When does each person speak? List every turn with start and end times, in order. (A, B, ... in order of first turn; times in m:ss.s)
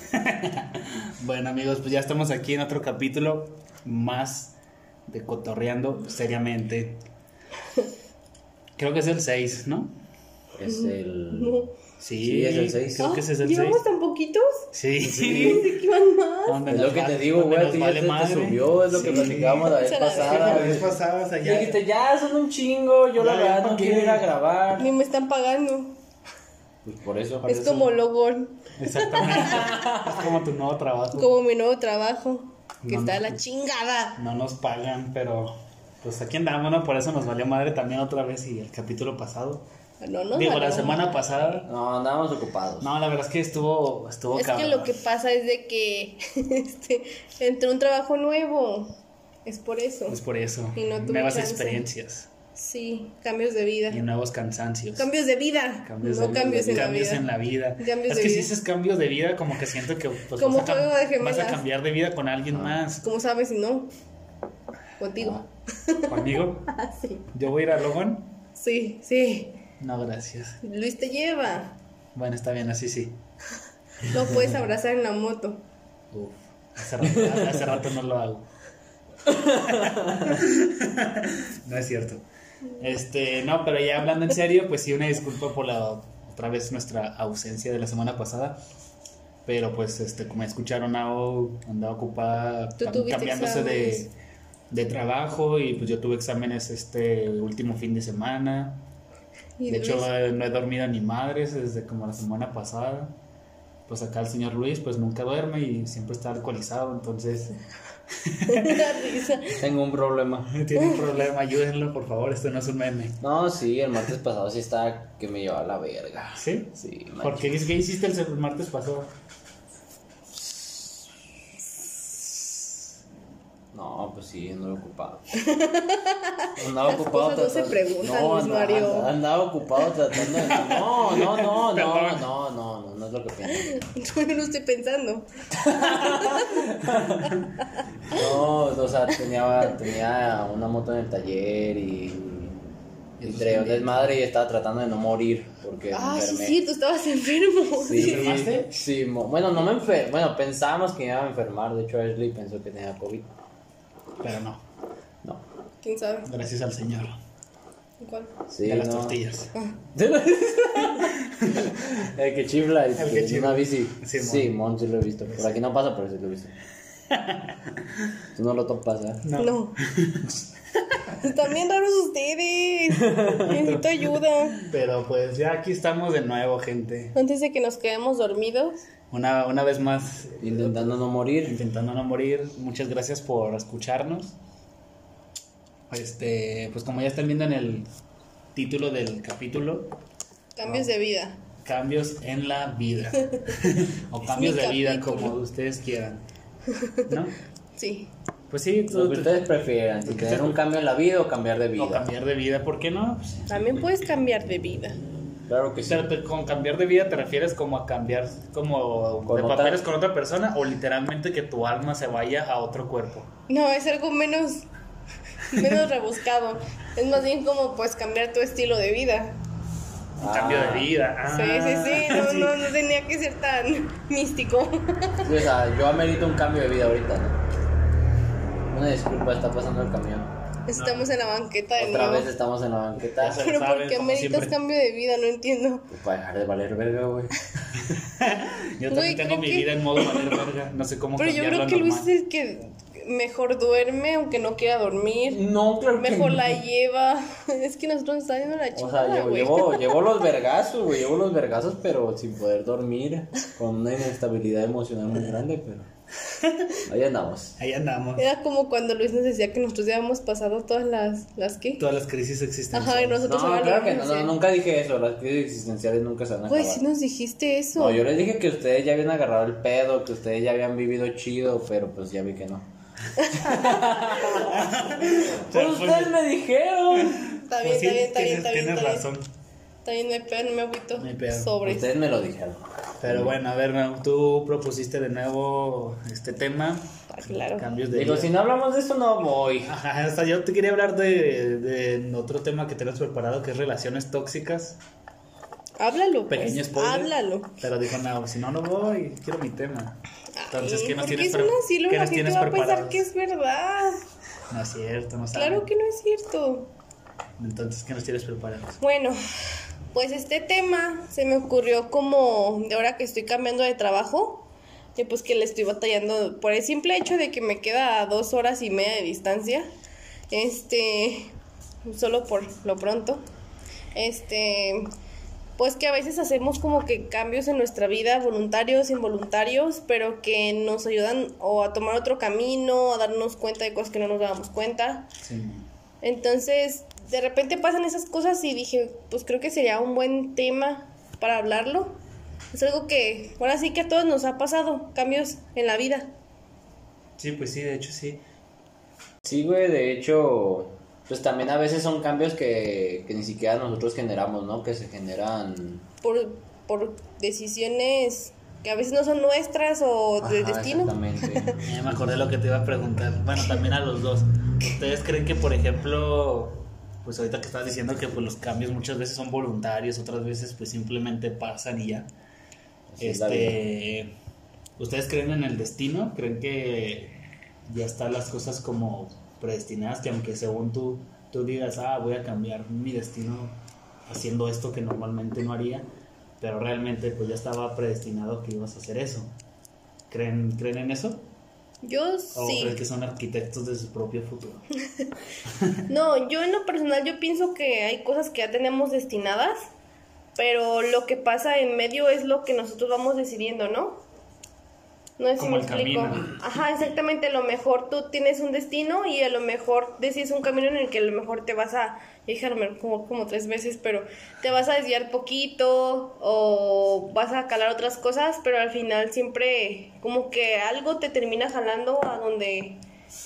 0:00.1-0:04.5 A
0:05.1-0:07.0 A
0:08.8-0:09.9 A
0:10.5-0:11.5 B
0:10.6-0:11.7 C
0:12.0-0:13.8 A
0:12.2-0:13.0 B
0:13.0-0:14.6 C
0:14.7-0:15.6 A
0:15.0-0:15.7 B
0:15.2-0:16.6 C
0:16.4-0:21.8 A
0:16.7-0:24.9 B
0:19.3-0:20.6 C
0:23.2-0:24.3 A
0:24.8-0:26.0 C
0:26.8-0:27.7 B
0:27.4-0:29.7 C
0:27.6-0:27.9 A
0:28.8-0:31.3 A
0:29.4-0:30.3 B
0:31.1-0:34.2 C
0:32.8-0:33.4 A
0:34.2-0:39.6 A
0:40.0-0:41.2 C
0:40.3-0:41.7 A
0:41.6-0:42.9 B
0:42.8-0:44.9 A
0:44.3-0:48.9 C
0:49.4-0:50.2 C
0:50.1-0:52.3 A
0:50.7-0:51.8 C
0:52.5-0:54.0 C
0:53.9-0:55.1 A
0:55.0-0:57.2 C
0:55.8-1:03.0 A
0:56.3-0:57.0 B
0:57.8-0:58.5 C
1:00.4-1:01.6 C
1:03.0-1:03.9 C
1:05.0-1:07.3 C
1:06.1-1:06.7 A
1:07.3-1:08.3 A
1:08.6-1:09.6 C
1:09.8-1:10.6 A
1:10.6-1:11.8 C
1:12.1-1:13.2 A
1:14.0-1:15.6 C
1:16.1-1:18.4 A
1:17.0-1:17.6 B
1:19.2-1:20.4 B
1:20.2-1:22.2 A
1:22.8-1:28.6 A
1:29.4-1:34.1 A
1:32.8-1:34.1 C
1:34.7-1:38.8 A
1:39.6-1:40.1 C
1:39.7-1:43.1 A
1:43.9-1:47.5 A
1:48.2-1:49.0 A
1:48.5-1:49.6 C
1:49.5-1:50.5 B
1:50.5-1:53.2 A
1:50.8-1:51.1 C
1:53.2-1:57.7 B
1:56.3-1:59.1 A
2:00.3-2:01.0 B
2:03.7-2:05.3 B
2:05.3-2:09.1 C
2:06.6-2:13.8 B
2:10.2-2:12.3 A
2:13.5-2:16.6 C
2:15.6-2:17.4 B
2:17.2-2:18.2 C
2:18.1-2:22.6 B
2:23.2-2:24.2 A
2:23.2-2:26.6 B
2:25.9-2:28.2 C
2:27.8-2:33.3 B
2:28.0-2:28.7 A
2:34.2-2:34.6 A
2:35.8-2:36.3 C
2:36.2-2:37.2 A
2:38.0-2:38.3 C
2:38.5-2:39.2 B
2:38.6-2:39.5 A
2:39.9-2:46.5 B
2:41.3-2:41.6 A
2:43.0-2:44.5 A
2:45.3-2:45.6 A
2:47.1-2:47.7 A
2:48.4-2:49.2 B
2:49.2-2:50.3 A
2:49.4-2:49.8 C
2:51.2-2:54.6 C
2:53.0-2:53.8 B
2:53.3-2:57.2 A
2:57.2-2:58.8 C
2:59.1-3:04.3 A
3:00.4-3:01.6 B
3:05.9-3:07.8 A
3:08.5-3:09.9 A
3:10.6-3:11.4 C
3:10.6-3:10.9 A
3:11.6-3:16.2 A
3:14.2-3:15.4 C
3:16.7-3:17.1 C
3:17.1-3:17.3 A
3:17.8-3:18.1 C
3:18.5-3:19.5 A
3:18.9-3:22.0 B
3:20.0-3:20.6 A
3:21.8-3:23.6 A
3:23.5-3:25.0 C
3:25.5-3:26.1 B
3:25.8-3:33.3 A
3:29.2-3:29.8 B
3:33.5-3:34.6 C
3:35.4-3:39.4 C
3:40.2-3:42.7 A
3:40.2-3:40.9 B
3:41.3-3:45.3 C
3:45.2-3:47.4 B
3:48.7-3:50.3 B
3:50.7-3:52.3 C
3:50.7-3:51.1 A
3:51.8-3:53.5 B
3:53.1-3:54.6 A
3:53.3-3:55.9 C
3:55.9-3:57.3 B
3:58.0-4:02.1 A
3:58.9-3:59.7 C
4:01.2-4:05.4 C
4:05.3-4:06.6 B
4:05.9-4:10.0 C
4:08.7-4:15.9 B
4:16.3-4:16.7 A
4:16.8-4:17.6 B
4:17.6-4:18.2 A
4:18.2-4:21.8 C
4:21.8-4:23.2 A
4:22.7-4:24.3 C
4:23.3-4:26.8 B
4:26.5-4:28.0 C
4:27.8-4:32.7 B
4:33.2-4:33.8 C
4:33.3-4:37.3 B
4:34.3-4:36.2 A
4:36.9-4:39.3 A
4:37.4-4:39.0 C
4:39.8-4:41.9 C
4:41.0-4:41.6 A
4:41.6-4:43.3 B
4:43.0-4:48.3 A
4:47.1-4:47.6 C
4:47.9-4:49.7 B
4:49.6-4:54.8 A
4:55.8-4:57.5 C
4:56.3-5:00.0 A
5:00.4-5:04.0 C
5:00.5-5:03.0 A
5:04.5-5:05.7 A
5:05.3-5:06.7 C
5:07.4-5:08.8 A
5:08.8-5:09.2 C
5:09.9-5:19.7 C
5:20.3-5:21.3 C
5:21.8-5:23.2 C
5:23.9-5:24.9 C
5:25.6-5:35.1 C
5:35.2-5:35.7 A
5:36.0-5:42.0 C
5:42.5-5:46.1 C
5:47.2-5:48.2 A
5:49.2-5:55.8 B
5:56.0-6:01.5 C
6:00.2-6:02.2 B
6:01.6-6:12.1 A
6:12.9-6:13.6 B
6:13.0-6:14.1 A
6:14.8-6:25.8 A
6:26.4-6:29.3 A
6:30.1-6:31.2 A
6:31.8-6:32.8 C
6:32.3-6:34.6 A
6:35.5-6:35.8 A
6:35.9-6:39.6 C
6:40.4-6:44.0 C
6:45.2-7:02.8 C
6:45.4-6:46.2 A